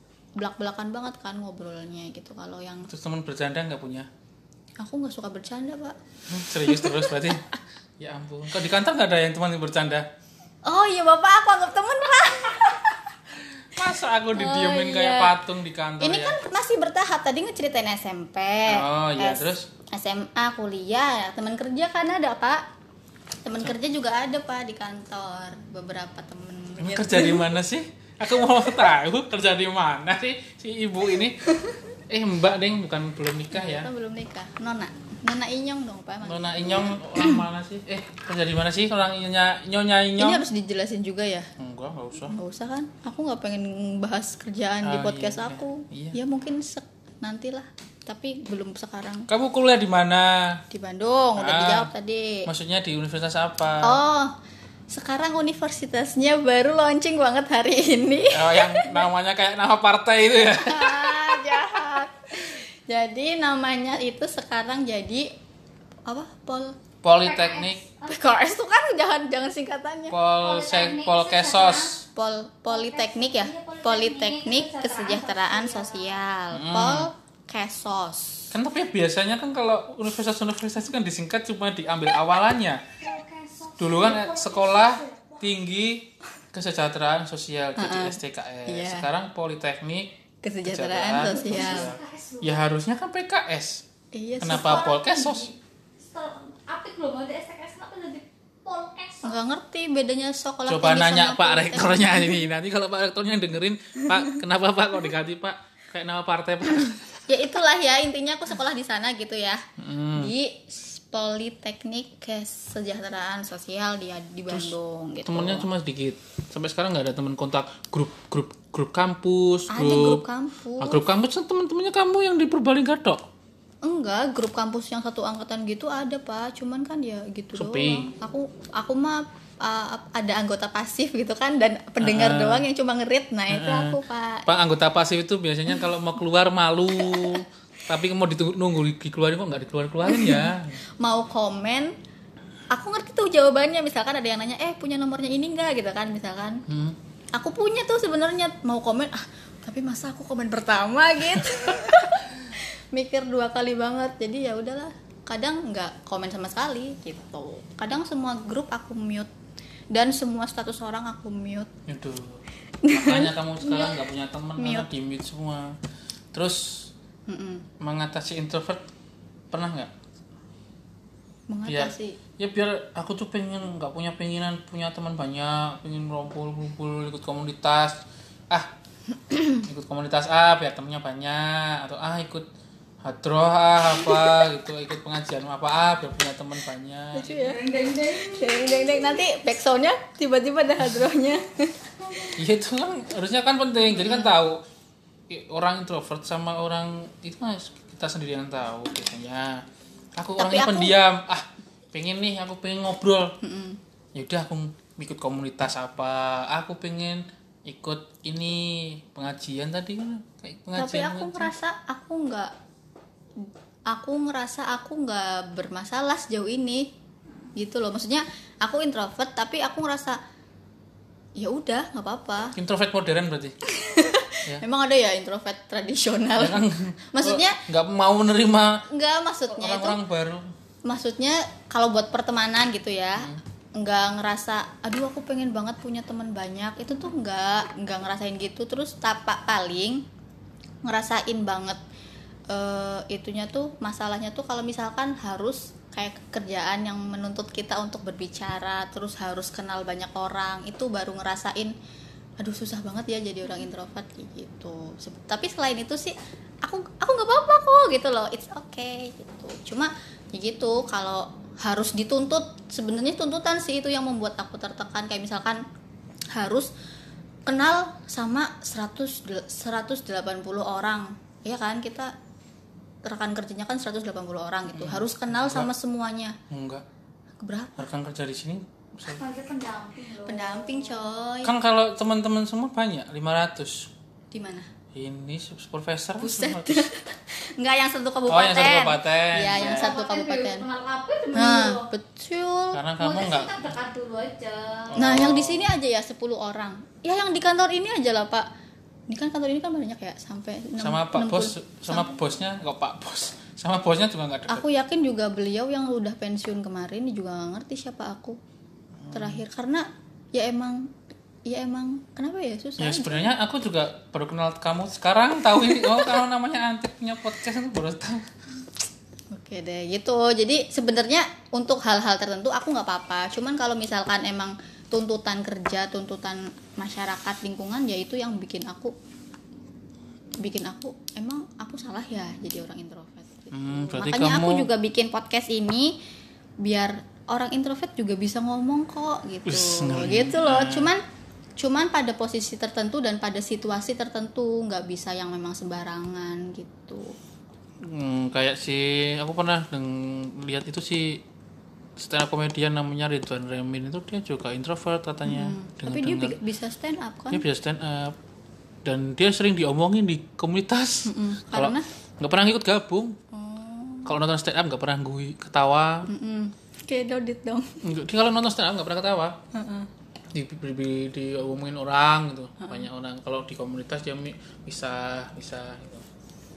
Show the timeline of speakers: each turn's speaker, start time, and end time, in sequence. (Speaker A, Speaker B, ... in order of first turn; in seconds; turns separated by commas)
Speaker A: 0.4-2.9, Speaker B: 2.9-4.1, Speaker A: 4.8-7.3, Speaker B: 6.3-10.1, Speaker A: 10.6-13.2, Speaker B: 13.6-16.4, Speaker A: 14.3-15.3, Speaker A: 16.0-22.6, Speaker B: 18.7-19.7, Speaker A: 23.4-27.5, Speaker B: 26.8-31.4, Speaker B: 32.1-33.9, Speaker A: 33.5-37.4, Speaker B: 36.2-40.4, Speaker A: 40.2-41.5, Speaker B: 41.6-42.3, Speaker A: 42.3-49.3, Speaker B: 44.8-46.1, Speaker B: 49.3-50.6, Speaker A: 50.7-52.5, Speaker B: 51.4-51.9, Speaker B: 52.5-54.0, Speaker A: 53.8-54.3, Speaker A: 54.9-59.0, Speaker B: 58.3-61.6, Speaker A: 60.4-65.3, Speaker A: 66.1-66.8, Speaker B: 67.0-67.8, Speaker C: 67.2-68.1, Speaker A: 68.0-70.2, Speaker B: 70.1-72.0, Speaker C: 70.4-72.0, Speaker A: 72.1-78.5, Speaker C: 72.7-76.2, Speaker B: 76.5-77.1, Speaker B: 78.5-82.8, Speaker C: 83.0-85.5, Speaker B: 83.8-90.1, Speaker A: 87.8-89.1, Speaker A: 90.4-91.9, Speaker B: 90.6-93.8, Speaker C: 91.3-92.5, Speaker A: 94.1-95.1, Speaker B: 94.4-95.5, Speaker C: 94.6-99.4, Speaker A: 99.2-102.4, Speaker B: 100.7-107.2, Speaker A: 107.3-115.7, Speaker B: 109.8-110.3, Speaker B: 115.2-120.2, Speaker A: 119.7-121.0, Speaker B: 120.8-123.2, Speaker A: 123.8-134.5, Speaker B: 127.5-128.1, Speaker B: 132.0-132.7, Speaker B: 133.5-140.8, Speaker A: 137.1-137.4, Speaker A: 140.1-141.9, Speaker A: 142.7-146.6, Speaker B: 146.7-147.0, Speaker A: 147.3-159.3, Speaker A: 159.9-161.7, Speaker B: 161.9-165.8, Speaker A: 162.8-163.9, Speaker A: 164.6-164.9, Speaker B: 166.3-166.9, Speaker A: 167.3-167.7, Speaker B: 167.8-168.9, Speaker B: 169.5-169.9, Speaker A: 171.5-172.2, Speaker B: 171.7-178.7, Speaker A: 179.3-179.6, Speaker B: 179.6-182.5, Speaker B: 183.0-187.6, Speaker A: 184.0-184.4, Speaker A: 187.1-192.3, Speaker C: 187.4-189.0, Speaker B: 192.3-194.6, Speaker A: 193.9-194.3, Speaker B: 195.3-203.3, Speaker A: 200.4-200.9, Speaker A: 203.4-203.8, Speaker B: 204.1-211.5, Speaker A: 210.8-212.5, Speaker A: 213.4-216.9, Speaker A: 217.6-220.2, Speaker A: 221.3-222.6, Speaker B: 222.6-223.6, Speaker A: 223.6-227.6, Speaker B: 226.4-228.8, Speaker A: 228.9-230.0, Speaker B: 229.5-230.5, Speaker A: 230.8-240.0, Speaker A: 240.8-241.8, Speaker A: 242.5-251.7, Speaker A: 252.4-265.6, Speaker A: 266.3-266.7, Speaker A: 267.4-272.1, Speaker A: 273.0-276.4, Speaker B: 274.7-275.7, Speaker B: 276.5-276.8, Speaker A: 277.4-277.9, Speaker B: 277.8-279.2, Speaker C: 279.1-281.1, Speaker A: 280.2-281.5, Speaker B: 281.4-283.9, Speaker A: 284.3-284.7, Speaker B: 284.9-286.9, Speaker A: 286.2-290.6, Speaker B: 288.3-289.9, Speaker C: 289.5-291.9, Speaker A: 291.3-292.8, Speaker B: 292.7-293.7, Speaker C: 293.0-295.0, Speaker B: 294.9-295.7, Speaker A: 294.9-298.5, Speaker A: 299.1-302.1, Speaker B: 300.8-304.6, Speaker A: 304.5-308.4, Speaker B: 309.0-309.4, Speaker A: 309.1-310.9, Speaker A: 311.4-313.3, Speaker B: 312.8-318.3, Speaker A: 319.3-328.9, Speaker A: 330.4-336.0, Speaker B: 333.5-334.7, Speaker A: 336.6-341.0, Speaker B: 339.4-340.9, Speaker A: 341.6-347.1, Speaker B: 347.8-351.2, Speaker B: 351.9-356.4, Speaker A: 355.2-357.4, Speaker B: 357.3-358.2, Speaker B: 358.8-363.2, Speaker A: 361.0-361.9, Speaker A: 363.3-364.1, Speaker B: 364.0-366.1, Speaker A: 366.1-367.8, Speaker B: 367.8-369.4, Speaker A: 369.5-369.9, Speaker B: 370.3-376.1, Speaker A: 372.6-372.9